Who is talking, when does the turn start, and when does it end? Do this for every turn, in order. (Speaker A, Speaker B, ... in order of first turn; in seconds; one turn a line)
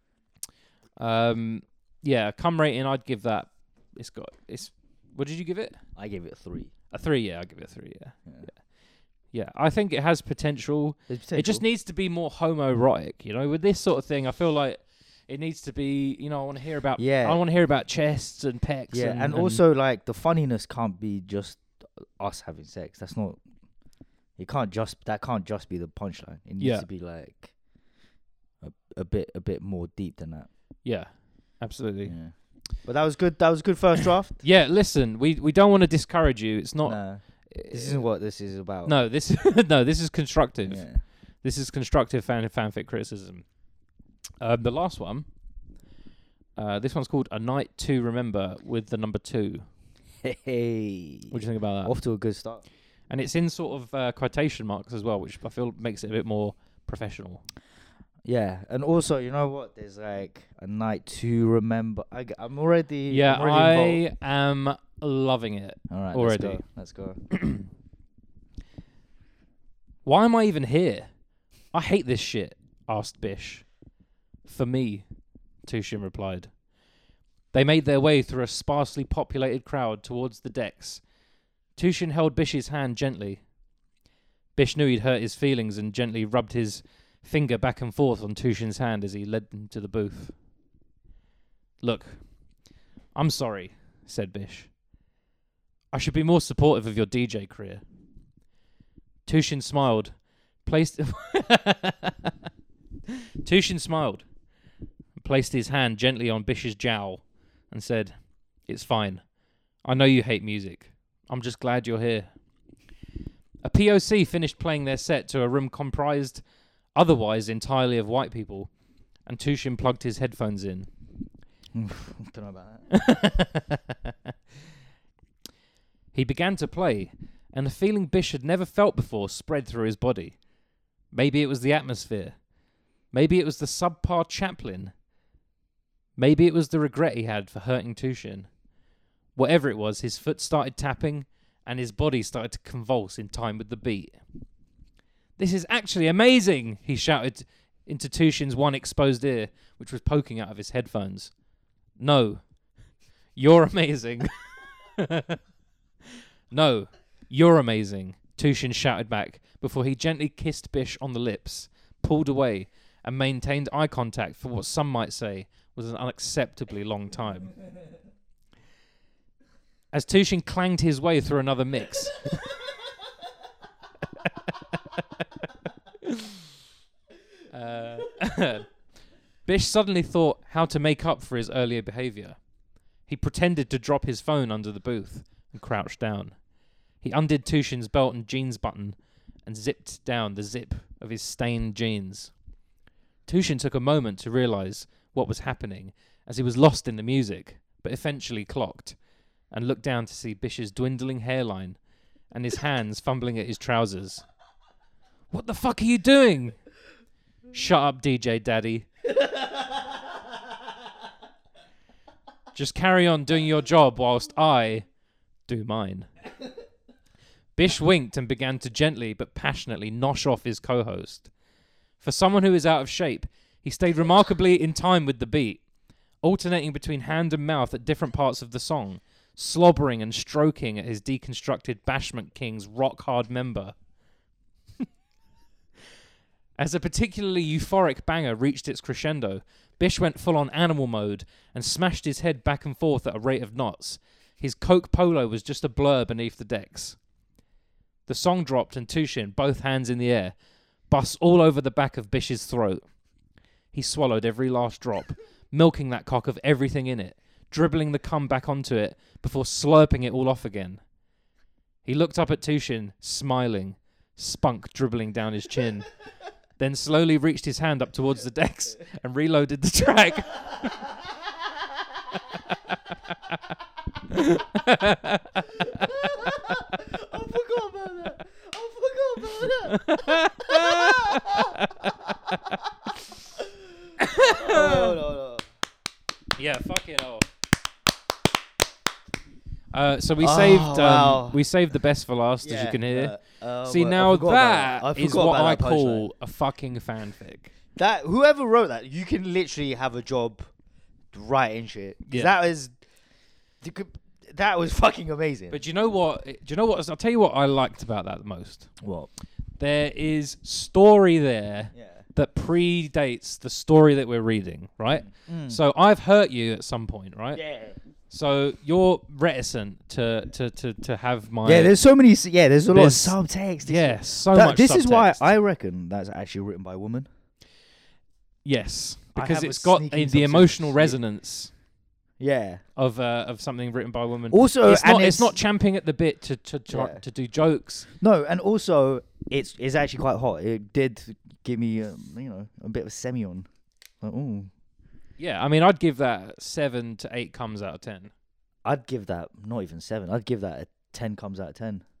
Speaker A: 1.0-5.8
Speaker B: 6.0-6.7
Speaker A: 6.9-8.6
Speaker A: 9.3-19.6
Speaker B: 11.1-11.6
Speaker B: 17.0-17.4
Speaker B: 18.9-23.4
Speaker B: 24.4-27.5
Speaker A: 26.6-26.8
Speaker B: 28.6-30.5
Speaker A: 30.8-32.1
Speaker B: 32.0-32.3
Speaker B: 32.8-34.4
Speaker A: 34.4-38.0
Speaker B: 36.8-38.9
Speaker A: 38.9-40.9
Speaker B: 40.6-41.0
Speaker A: 41.4-43.4
Speaker A: 44.4-45.3
Speaker A: 46.6-49.6
Speaker B: 50.2-52.6
Speaker A: 51.3-51.9
Speaker A: 53.1-57.4
Speaker B: 58.2-64.0
Speaker A: 63.1-66.6
Speaker B: 65.9-67.2
Speaker A: 67.3-67.7
Speaker A: 70.0-71.1
Speaker A: 71.7-73.7
Speaker A: 74.5-75.0
Speaker A: 75.7-76.5
Speaker A: 77.5-81.0
Speaker A: 81.8-83.4
Speaker A: 84.5-90.3
Speaker A: 91.8-92.2
Speaker A: 93.1-94.7
Speaker A: 95.9-97.8
Speaker A: 99.2-100.1
Speaker A: 100.6-102.3
Speaker A: 103.4-104.2
Speaker A: 105.2-108.1
Speaker A: 108.7-109.2
Speaker A: 109.8-112.3
Speaker A: 113.6-116.4
Speaker A: 116.9-118.7
Speaker A: 119.2-120.9
Speaker B: 121.7-122.9
Speaker A: 122.9-124.3
Speaker A: 126.1-130.4
Speaker A: 131.1-132.4
Speaker A: 133.1-134.9
Speaker A: 136.2-138.5
Speaker A: 139.3-144.2
Speaker A: 145.4-151.3
Speaker A: 152.0-152.4
Speaker A: 153.3-155.4
Speaker A: 156.5-167.5
Speaker A: 169.9-172.6
Speaker A: 176.0-176.3
Speaker A: 177.5-178.7
Speaker A: 179.4-182.4
Speaker A: 183.1-186.4
Speaker A: 187.0-192.3
Speaker A: 193.2-199.0
Speaker A: 199.5-201.8
Speaker A: 202.3-204.2
Speaker A: 205.3-206.6
Speaker A: 207.5-208.9
Speaker A: 212.5-214.9
Speaker A: 215.5-216.1
Speaker A: 217.6-221.3
Speaker A: 222.0-225.6
Speaker A: 226.2-233.8
Speaker A: 236.6-247.0
Speaker A: 248.1-250.3
Speaker A: 250.9-252.8
Speaker A: 253.7-260.8
Speaker A: 261.8-265.9
Speaker A: 266.6-270.9
Speaker A: 274.1-275.5
Speaker B: 275.6-281.6
Speaker A: 279.6-282.6
Speaker B: 283.4-285.4
Speaker A: 284.0-285.0
Speaker A: 286.4-287.3
Speaker A: 289.7-297.5
Speaker B: 290.2-291.4
Speaker B: 292.4-296.1
Speaker B: 297.8-300.5
Speaker B: 301.1-302.7
Speaker A: 302.1-302.3
Speaker B: 303.6-305.6
Speaker A: 305.5-308.7
Speaker B: 308.8-309.1
Speaker A: 309.6-317.4
Speaker B: 311.8-312.0
Speaker B: 314.9-315.6
Speaker B: 317.3-317.8
Speaker A: 318.1-321.7
Speaker B: 321.4-327.1
Speaker A: 322.7-325.3
Speaker A: 328.4-331.5
Speaker B: 329.1-331.0
Speaker B: 332.2-332.6
Speaker A: 332.8-337.9
Speaker B: 334.3-335.4
Speaker B: 336.7-337.0
Speaker B: 338.0-343.5
Speaker B: 344.0-344.5
Speaker A: 345.2-348.1
Speaker B: 348.6-351.8